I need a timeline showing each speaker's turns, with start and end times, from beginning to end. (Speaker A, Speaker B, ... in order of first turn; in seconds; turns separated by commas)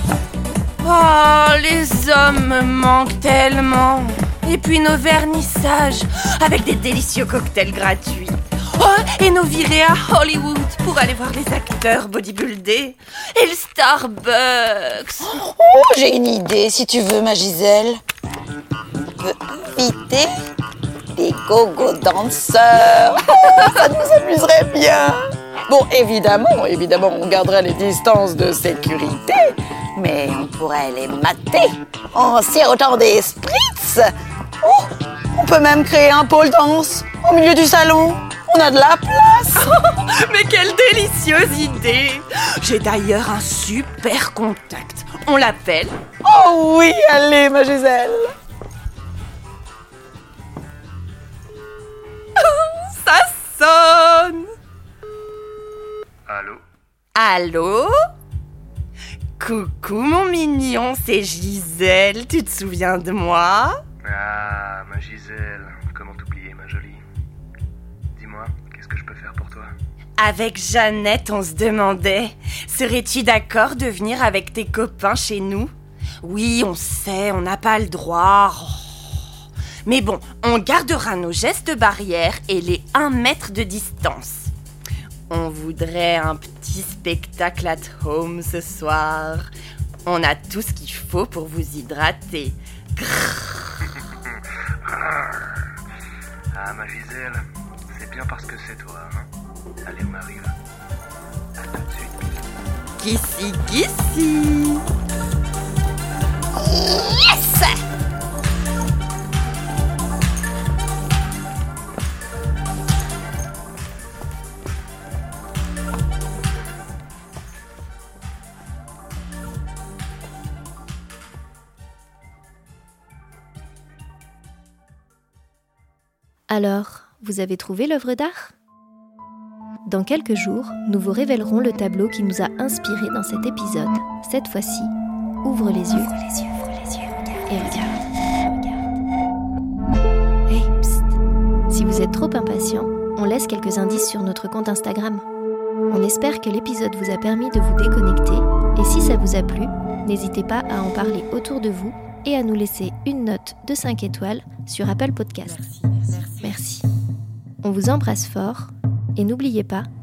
Speaker A: 0.8-15.4, Speaker B: 15.2-18.0, Speaker B: 19.1-20.3, Speaker B: 21.1-34.0, Speaker B: 34.6-39.7, Speaker A: 39.5-45.9, Speaker B: 46.2-48.3, Speaker A: 52.4-54.5, Speaker C: 56.3-56.6, Speaker A: 57.1-57.9, Speaker A: 59.4-63.8, Speaker C: 64.0-67.0, Speaker C: 68.1-69.7, Speaker A: 70.2-79.2, Speaker A: 79.8-84.5, Speaker A: 85.3-89.5, Speaker A: 90.0-93.9, Speaker C: 94.8-95.7, Speaker C: 96.5-99.3, Speaker C: 99.8-100.5, Speaker C: 101.6-102.3, Speaker A: 103.0-104.8, Speaker B: 106.6-107.7, Speaker D: 126.5-128.5, Speaker D: 129.8-134.9, Speaker D: 135.4-136.1, Speaker A: 136.2-137.9, Speaker D: 137.5-138.8, Speaker D: 140.5-141.2, Speaker D: 141.7-145.2, Speaker D: 145.9-155.6, Speaker A: 155.4-156.6, Speaker D: 156.4-156.8, Speaker D: 157.6-159.9